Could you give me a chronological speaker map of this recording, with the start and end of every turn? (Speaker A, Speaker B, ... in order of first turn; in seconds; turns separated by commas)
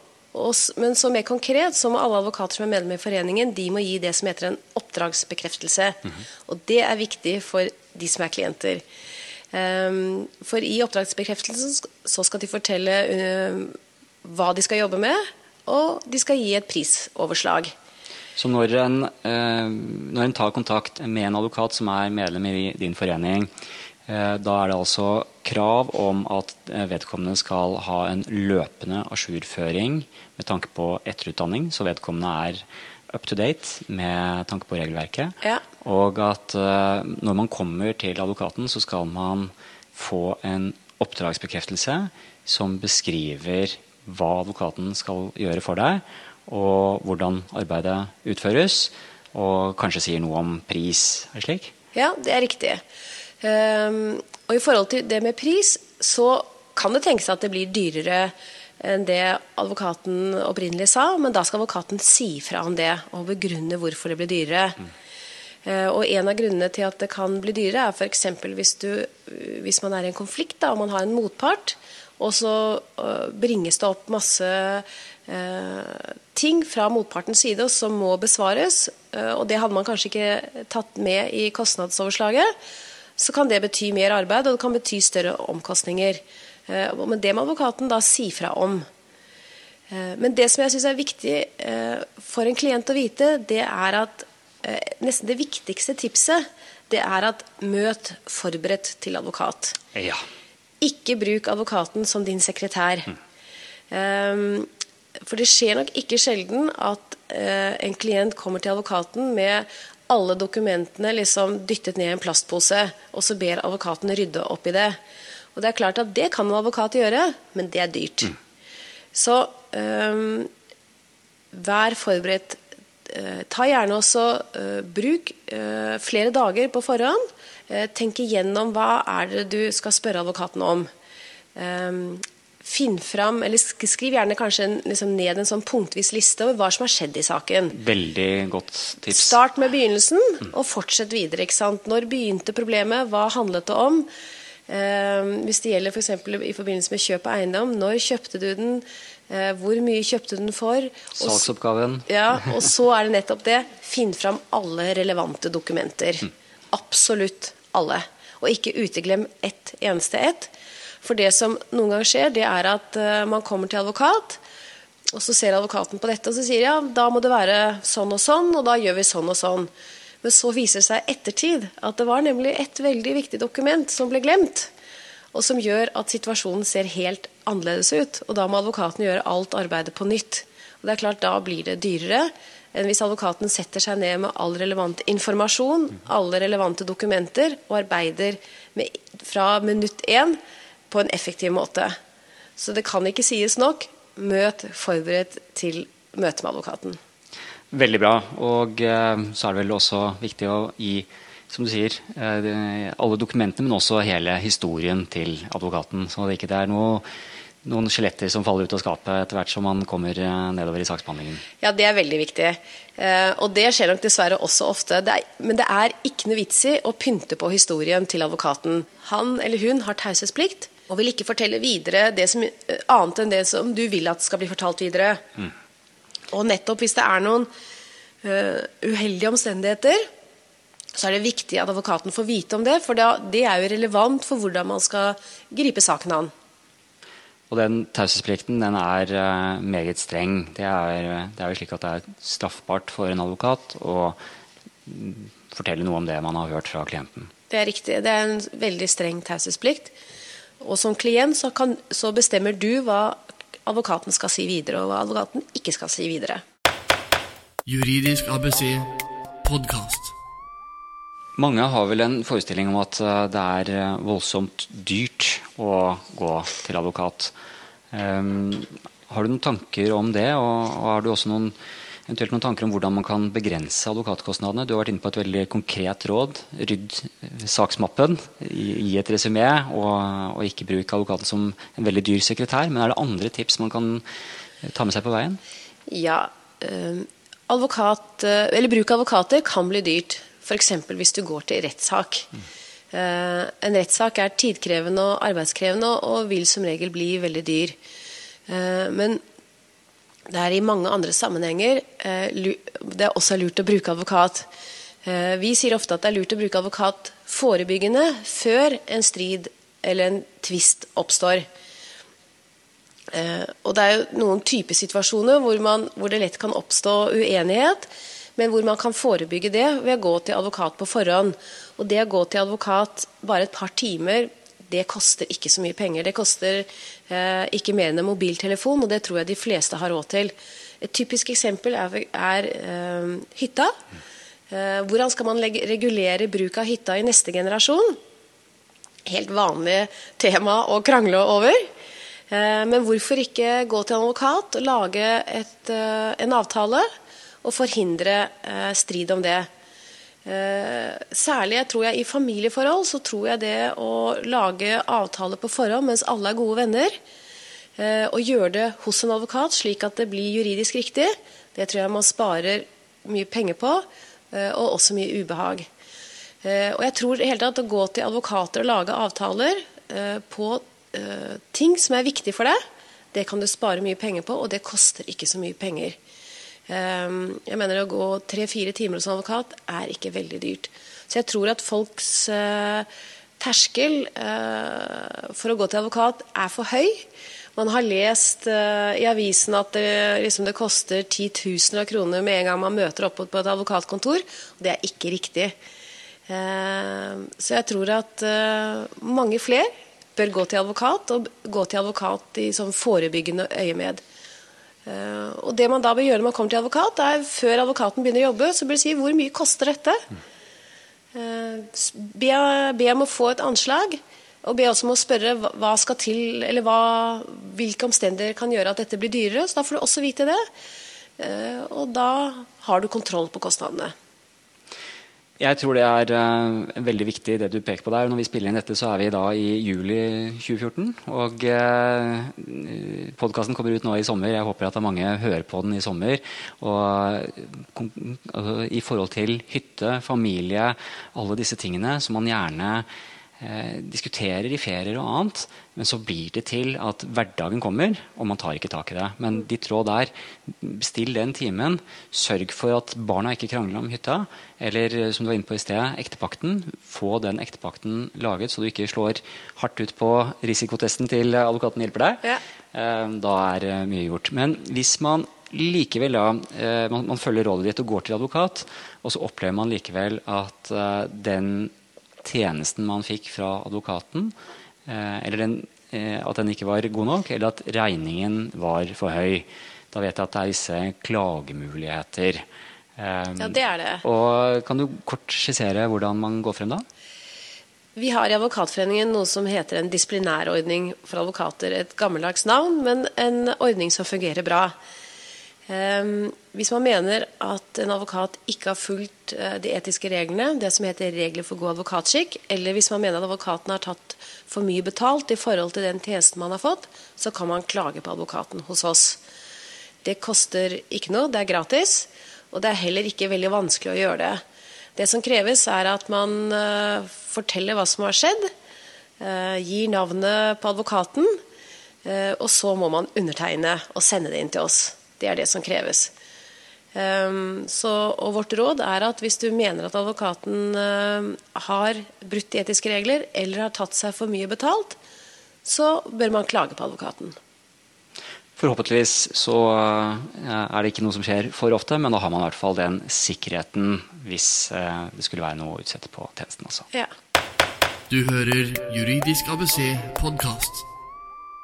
Speaker A: 0.3-8.8, Speaker A: 9.5-17.7, Speaker B: 18.4-23.5, Speaker B: 24.1-51.7, Speaker A: 51.9-52.8, Speaker A: 53.4-64.8, Speaker A: 65.6-82.5, Speaker A: 83.2-88.9, Speaker A: 89.9-99.8, Speaker B: 99.9-100.2, Speaker A: 100.8-103.1, Speaker A: 103.9-104.7, Speaker A: 105.2-115.0, Speaker A: 115.5-118.3, Speaker A: 119.1-120.5, Speaker A: 121.5-130.9, Speaker A: 131.5-137.8, Speaker B: 137.7-139.4, Speaker A: 139.1-144.1, Speaker A: 144.7-151.4, Speaker B: 151.2-152.1, Speaker A: 152.1-164.4, Speaker A: 165.1-169.7, Speaker A: 170.2-174.7, Speaker A: 175.3-190.4, Speaker A: 190.9-192.0, Speaker A: 192.6-197.0, Speaker B: 197.7-207.0, Speaker B: 207.6-211.4, Speaker A: 211.6-225.2, Speaker A: 226.3-227.5, Speaker A: 228.2-230.1, Speaker A: 230.9-236.3, Speaker B: 237.5-244.2, Speaker B: 244.8-247.3, Speaker A: 247.5-249.9, Speaker A: 250.6-256.4, Speaker C: 257.6-258.9, Speaker C: 259.4-260.1, Speaker B: 261.4-267.3, Speaker B: 267.9-271.5, Speaker B: 272.1-284.0, Speaker B: 284.6-285.4, Speaker A: 285.9-292.3, Speaker A: 292.9-297.8, Speaker A: 298.5-299.2, Speaker A: 300.3-304.5, Speaker A: 305.0-311.4, Speaker A: 313.1-333.7, Speaker A: 334.5-338.0, Speaker A: 339.1-341.7, Speaker A: 342.3-346.9, Speaker A: 347.4-349.5, Speaker A: 350.2-357.0, Speaker A: 357.8-365.7, Speaker A: 366.4-372.6, Speaker A: 373.1-376.0, Speaker A: 376.7-382.9, Speaker A: 383.4-395.5, Speaker A: 396.3-404.0, Speaker A: 404.9-410.0, Speaker A: 411.1-420.4, Speaker A: 421.2-423.9, Speaker B: 425.4-442.9, Speaker B: 443.4-471.7, Speaker B: 472.2-474.3, Speaker B: 474.9-482.4, Speaker B: 483.0-486.8, Speaker A: 483.4-484.0, Speaker A: 487.9-494.7, Speaker A: 495.7-509.2, Speaker A: 510.0-514.4, Speaker A: 515.0-518.5, Speaker A: 519.2-521.4, Speaker A: 522.0-526.1, Speaker A: 526.9-535.0, Speaker A: 535.6-537.4, Speaker B: 538.6-546.9, Speaker C: 548.1-550.8